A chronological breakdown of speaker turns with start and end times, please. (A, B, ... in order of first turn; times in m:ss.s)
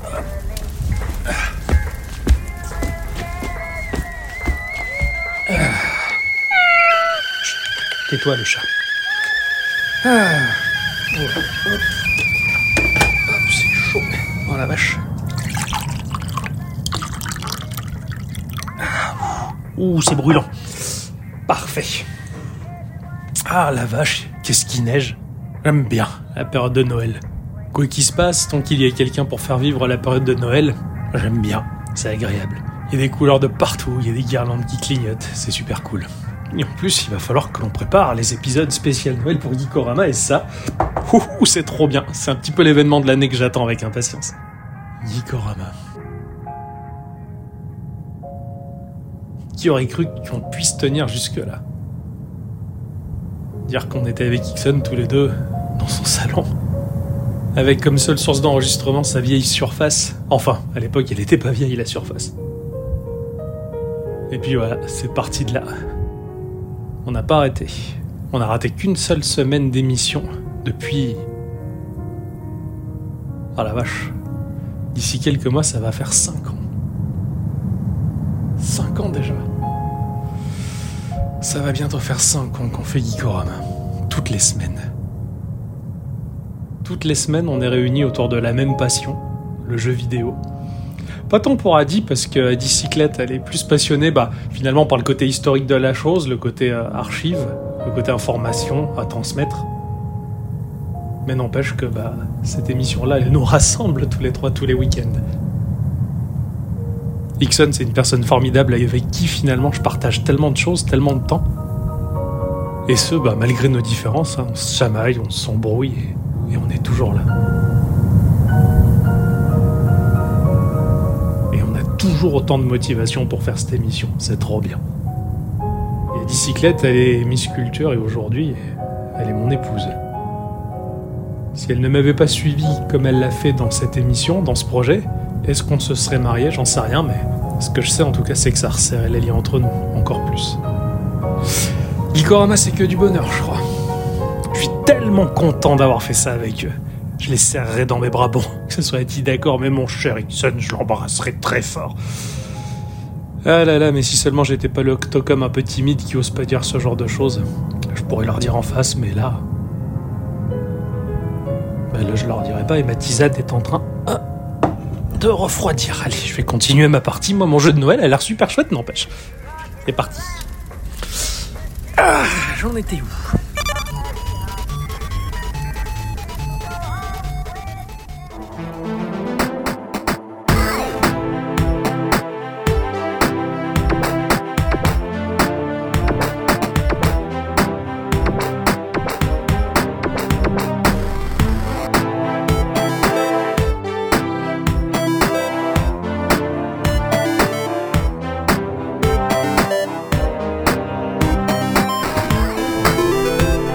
0:05.5-0:06.1 A
0:08.1-0:08.7 A
0:10.0-0:11.8 A
0:13.3-0:15.0 A
0:18.8-0:22.1 A
0:23.4-0:27.2 A
0:27.7-0:40.5 A
0:41.0-0:44.4 A
0:45.0-0:45.7 A
0:49.6-0:51.6 A
0:53.7-0:56.5 A
0:57.5-1:02.3 A
1:04.3-1:05.7 A
1:07.0-1:11.2 A
1:13.6-1:14.1 A
1:14.9-1:16.6 A
1:18.6-1:19.4 A
1:21.4-1:24.8 A
1:26.8-1:30.4 A
1:31.3-1:39.7 A
1:41.2-1:45.2 A
1:47.4-1:51.5 A
1:52.8-1:57.3 A
2:01.5-2:04.8 A
2:06.1-2:10.0 A
2:11.5-2:20.6 A
2:22.1-2:23.6 A
2:24.5-2:32.0 A
2:33.4-2:39.4 A
2:41.9-2:44.2 A
2:45.1-2:49.1 A
2:49.8-2:50.4 A
2:52.0-2:53.4 A